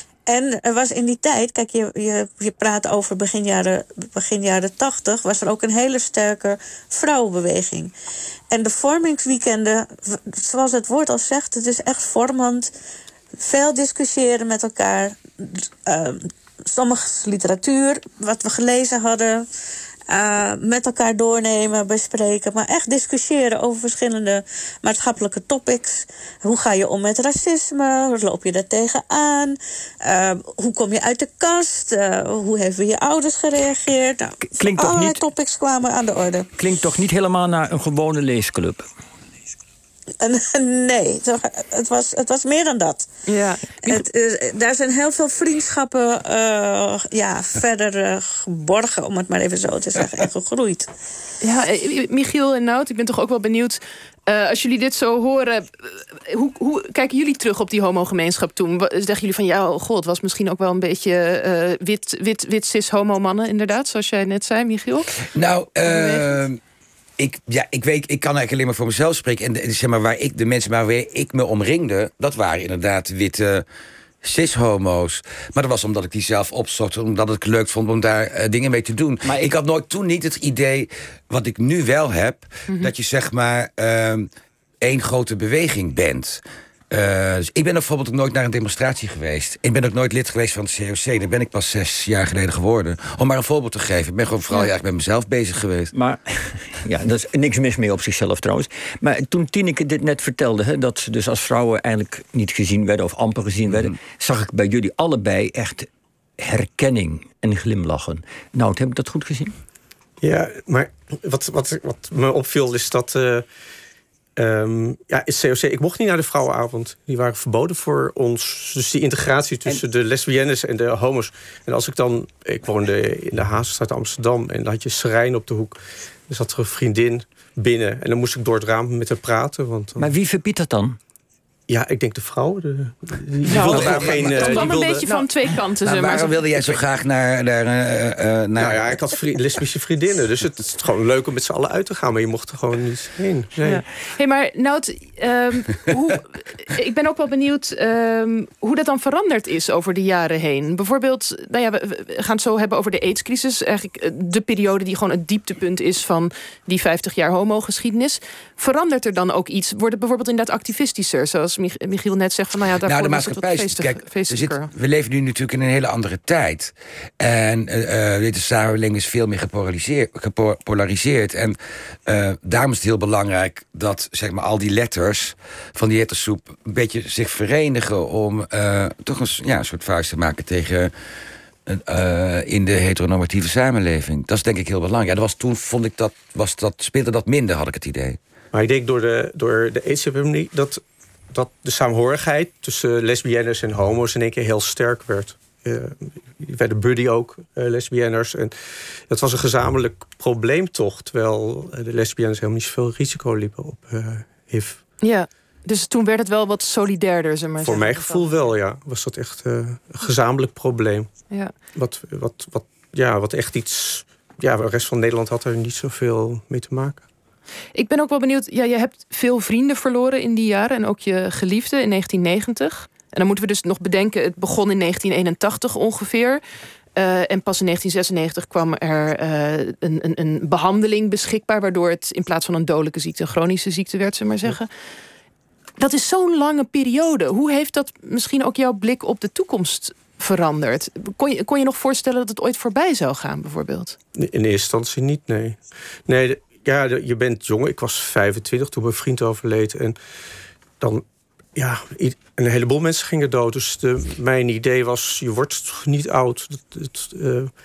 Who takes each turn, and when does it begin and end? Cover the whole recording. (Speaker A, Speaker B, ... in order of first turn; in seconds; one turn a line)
Speaker A: 0.3-7.9
Speaker A: 8.5-12.7
Speaker A: 13.4-19.4
Speaker A: 20.1-36.5
Speaker B: 34.4-35.2
Speaker B: 36.6-38.8
Speaker A: 40.2-43.1
Speaker C: 43.3-44.0
Speaker A: 43.9-50.9
Speaker C: 51.4-65.1
Speaker D: 65.3-66.6
Speaker C: 65.9-66.3
Speaker D: 67.2-73.7
Speaker D: 74.2-84.3
Speaker D: 84.8-95.9
Speaker B: 95.9-105.9
Speaker B: 106.4-109.5
Speaker E: 110.2-113.5
Speaker E: 114.4-125.8
Speaker E: 126.3-130.1
Speaker B: 130.0-131.0
Speaker E: 131.7-135.2
Speaker C: 133.5-136.4
Speaker D: 135.8-139.0
Speaker E: 138.6-143.8
Speaker C: 143.6-164.7
Speaker D: 162.8-180.9
Speaker D: 181.7-188.2
Speaker E: 188.5-190.8
Speaker E: 191.3-198.5
Speaker E: 199.1-204.8
Speaker C: 205.0-208.5
Speaker E: 207.6-211.1
Speaker E: 211.7-217.1
Speaker C: 217.8-226.4
Speaker C: 227.0-234.7
Speaker C: 235.8-244.0
Speaker E: 244.2-250.0
Speaker E: 251.6-257.5